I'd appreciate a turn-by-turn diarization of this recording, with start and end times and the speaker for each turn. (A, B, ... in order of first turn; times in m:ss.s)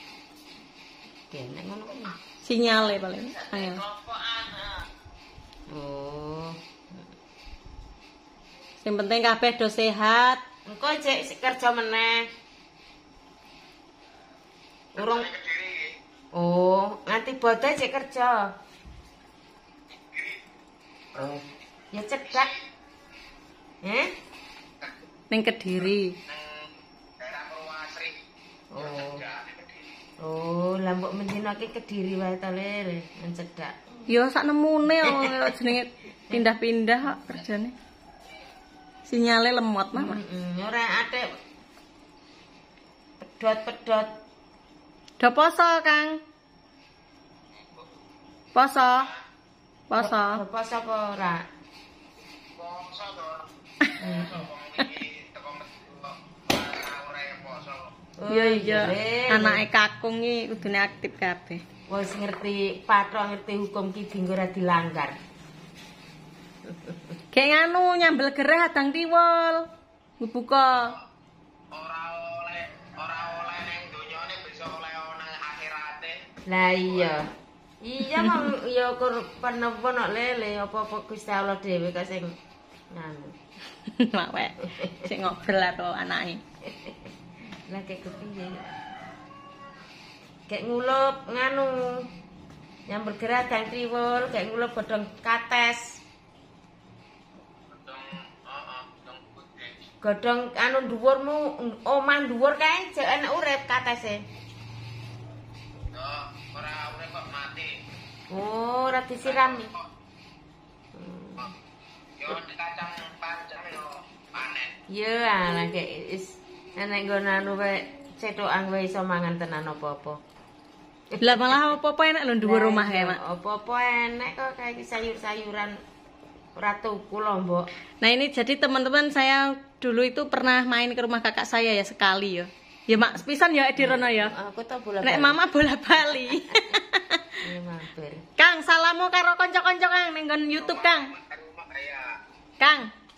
0:01.3-0:02.2 A
0:02.4-0:03.8 B
0:03.3-0:04.8 C
0:05.7-0:07.1 A
0:08.8-0:10.4 B
0:10.7-0:12.2 A
0:15.0-0:15.9 C
0:15.0-0:15.3 A
0:16.3-0:18.4 A
0:19.9-0:20.4 C
0:21.1-0:21.4 C
0:21.9-0:22.5 A
0:22.2-0:22.6 C
0:23.8-0:24.1 A
0:25.3-0:26.1 B
0:26.3-0:28.2 C
0:28.7-0:29.2 A
0:28.8-0:29.9 C
0:30.2-0:33.7 A
0:34.1-0:37.7 B
0:35.0-0:35.5 A
0:39.1-0:40.2 B
0:39.9-0:41.3 A
0:43.2-0:44.1 A
0:45.2-0:46.2 B
0:47.6-0:47.9 C
0:48.6-0:49.1 B
0:49.0-0:49.2 C
0:49.9-0:50.4 B
0:50.0-0:51.4 A
0:52.4-0:57.9 C
0:54.0-0:54.4 A
0:58.2-0:59.6 A
0:58.3-1:01.6 B
1:01.9-1:05.2 A
1:07.3-1:09.6 B
1:10.2-1:10.9 B
1:11.7-1:16.2 C
1:16.5-1:17.3 A
1:16.9-1:17.1 C
1:17.8-1:22.3 A
1:22.9-1:23.3 A
1:24.0-1:26.4 B
1:24.6-1:25.1 A
1:26.7-1:27.1 A
1:27.7-1:28.8 A
1:30.5-1:32.1 A
1:32.9-1:36.0 A
1:37.7-1:39.8 C
1:40.0-1:44.2 A
1:45.9-1:47.8 C
1:48.3-1:49.7 A
1:49.2-1:49.8 C
1:50.9-1:51.4 A
1:52.2-1:54.7 C
1:54.9-2:00.2 A
2:01.1-2:01.6 A
2:01.2-2:03.2 B
2:02.4-2:05.8 A
2:06.6-2:07.7 A
2:08.0-2:14.3 B
2:13.8-2:15.4 A
2:15.0-2:17.2 B
2:16.1-2:16.3 A
2:17.4-2:18.2 A
2:18.4-2:21.1 B
2:20.6-2:22.2 C
2:22.6-2:22.9 B